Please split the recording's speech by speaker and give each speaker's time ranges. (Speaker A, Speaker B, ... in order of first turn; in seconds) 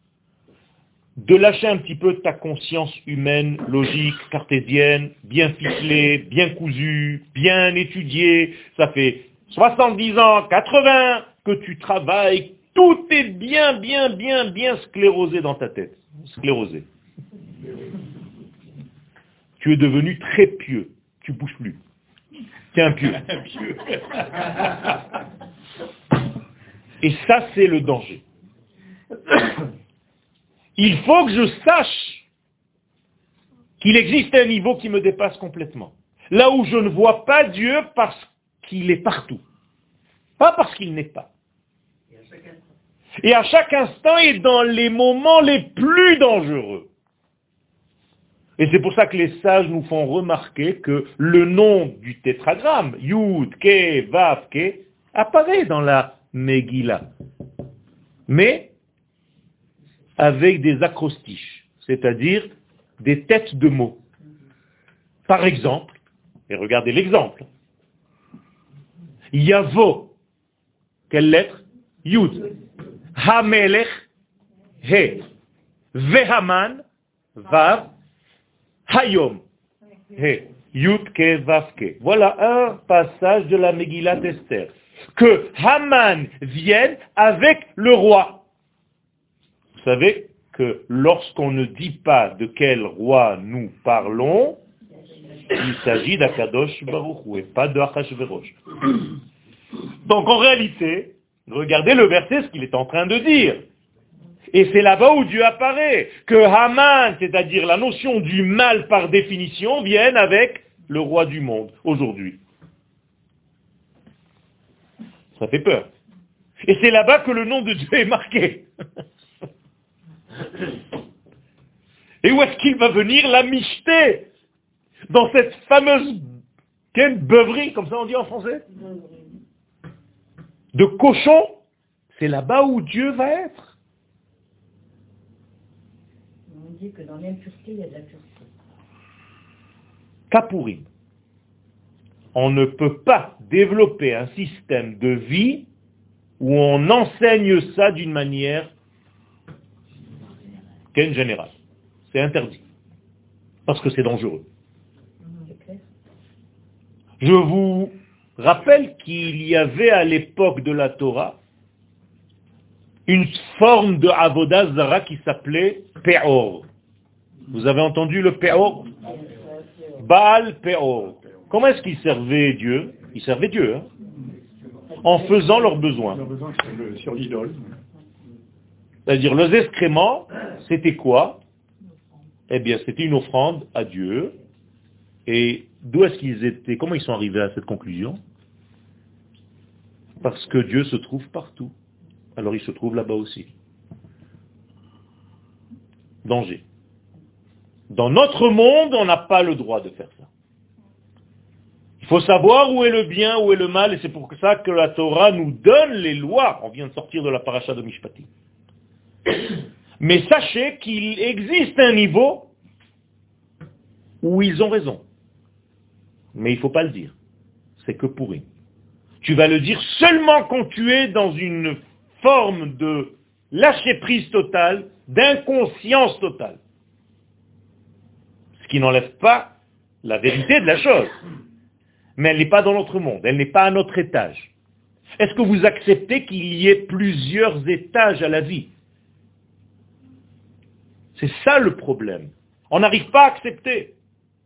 Speaker A: 1.2-16.9, 19.6-21.8, 22.7-23.3, 27.0-28.2, 30.8-32.2, 33.8-39.4, 40.4-41.3, 43.2-46.9, 48.6-57.1, 58.3-58.7, 60.2-64.0, 65.3-67.5, 69.3-70.1, 71.1-72.5, 73.1-74.0, 74.8-75.2, 75.9-76.8, 77.4-77.9, 78.9-79.4, 80.1-88.4, 89.8-94.6, 95.5-98.6, 100.0-103.6, 104.5-112.4, 115.4-115.9, 116.6-118.7, 122.2-124.3, 125.1-126.3, 126.9-128.6, 130.7-131.6, 132.1-133.7, 140.3-140.9, 142.3-145.7, 146.4-148.7, 150.9-151.5, 152.1-152.6, 153.7-154.4, 157.2-161.4, 163.1-166.6, 167.5-168.9, 170.0-173.9, 175.0-176.2, 179.1-181.4, 182.5-184.3, 185.3-188.2, 190.2-191.7, 192.4-193.5, 196.2-196.6, 197.9-200.3, 202.0-208.3, 210.0-212.5, 214.2-215.0, 216.3-217.1, 217.8-218.4, 219.2-226.6, 228.6-231.1, 232.2-234.5, 235.2-238.7, 241.2-243.9
Speaker B: 23.3-24.4, 176.1-177.7
Speaker C: 128.8-129.3, 136.5-138.4, 155.3-155.8, 169.3-169.6